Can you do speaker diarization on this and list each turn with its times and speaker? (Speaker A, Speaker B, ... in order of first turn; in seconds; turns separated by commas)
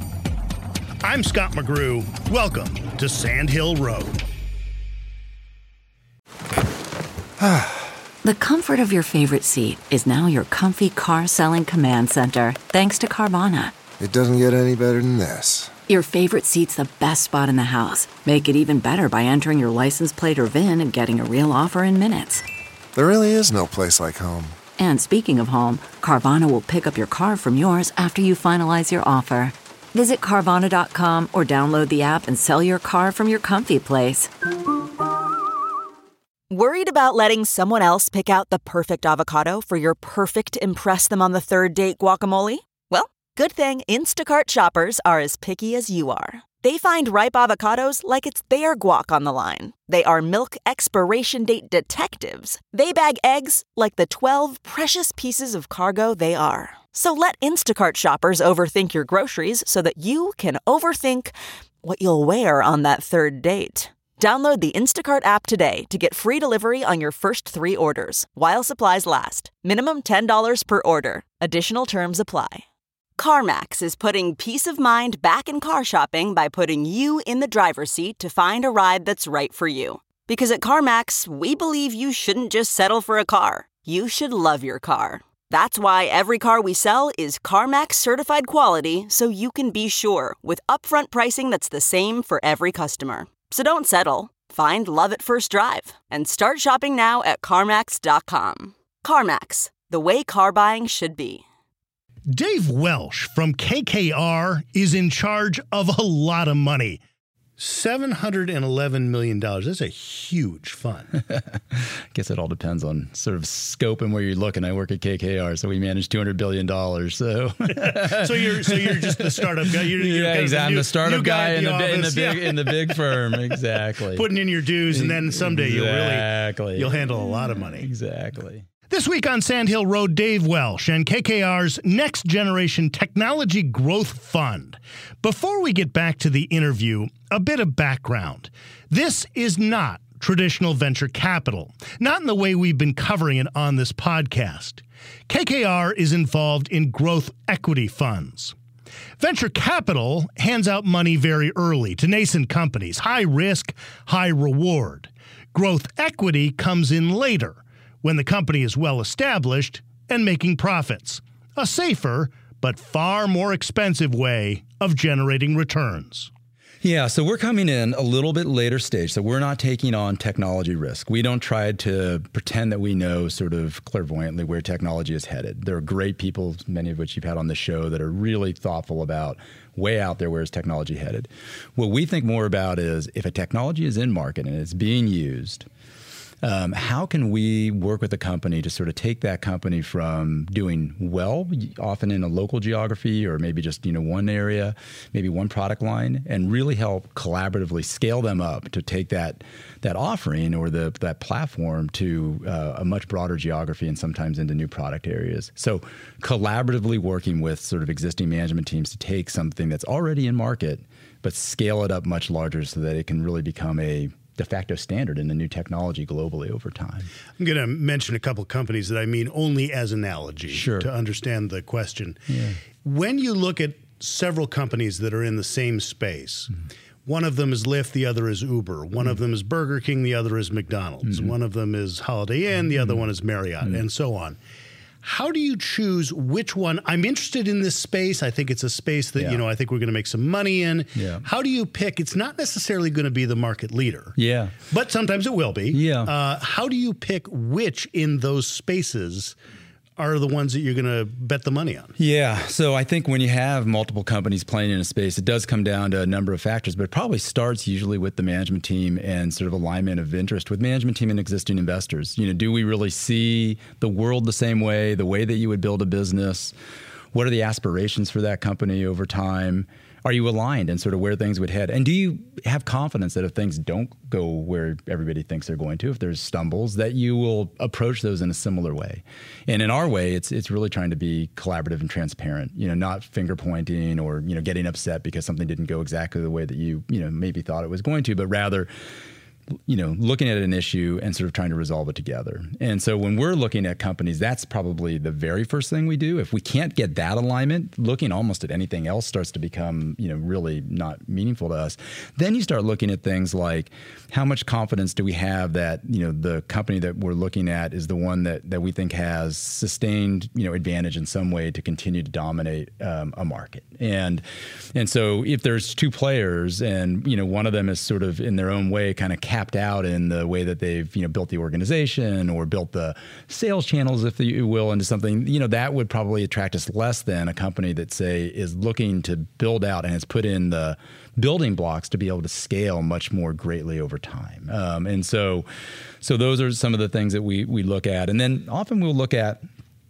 Speaker A: 1.0-4.2, Speaker B: 7.4-7.9, Speaker C: 8.2-13.8, Speaker B: 14.0-15.7, Speaker C: 15.9-22.4, Speaker B: 22.9-24.6, Speaker C: 24.8-34.3, Speaker D: 36.5-72.7, Speaker D: 73.2-101.4, Speaker A: 102.3-107.0, Speaker A: 107.6-111.1, Speaker E: 112.1-119.2, Speaker A: 117.7-123.4, Speaker E: 119.9-124.3, Speaker A: 124.1-127.9, Speaker E: 124.9-128.7, Speaker A: 128.9-148.6, Speaker A: 149.2-166.3, Speaker E: 166.8-185.7, Speaker E: 186.4-217.1, Speaker A: 217.4-226.5, Speaker E: 220.5-220.9, Speaker E: 222.3-222.6, Speaker A: 227.1-234.4, Speaker A: 235.0-244.2, Speaker E: 241.0-241.2, Speaker E: 244.2-244.6, Speaker A: 244.7-249.4, Speaker E: 245.7-246.1, Speaker A: 250.0-252.0, Speaker E: 252.0-266.5, Speaker E: 267.1-288.7, Speaker E: 289.7-314.2, Speaker E: 314.8-335.5, Speaker E: 336.0-339.4